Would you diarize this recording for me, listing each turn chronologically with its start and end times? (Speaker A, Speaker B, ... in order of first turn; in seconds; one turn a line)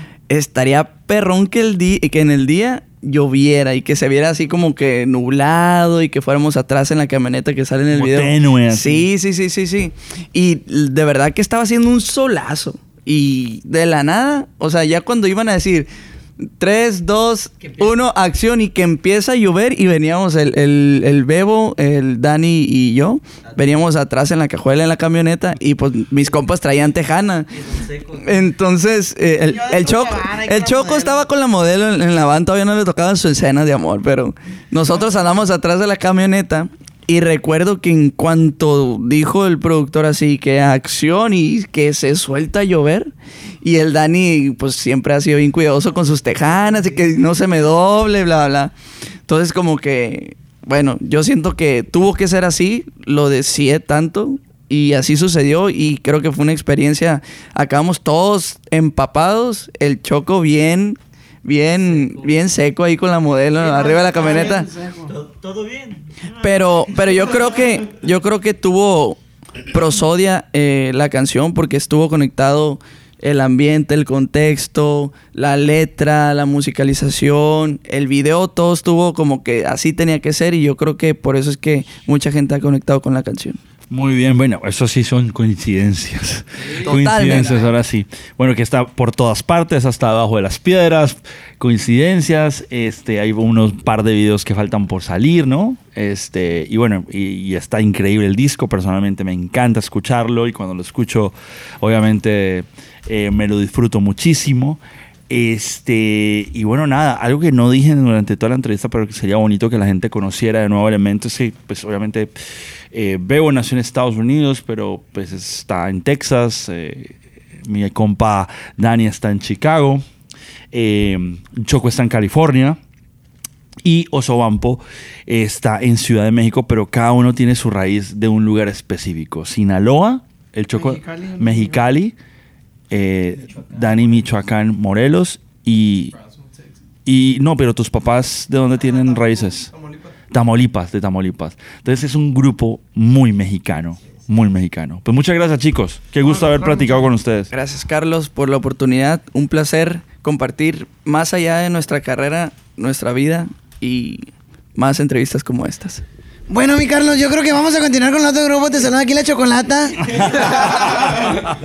Speaker A: 0.3-15.9
Speaker B: 7.9-9.1
Speaker A: 16.5-48.7
Speaker C: 27.7-28.2
Speaker D: 29.7-31.0
Speaker A: 49.3-64.7
Speaker C: 64.2-66.4
Speaker D: 64.7-65.1
Speaker A: 66.3-83.6
Speaker B: 83.9-112.3
Speaker A: 86.7-87.7
Speaker B: 112.9-120.0
Speaker B: 120.7-122.8
Speaker B: 123.8-132.2
Speaker D: 131.0-131.4
Speaker B: 132.9-136.1
Speaker B: 137.1-139.7
Speaker B: 140.3-147.5
Speaker A: 147.5-156.0
Speaker D: 156.5-160.9
Speaker B: 160.6-161.4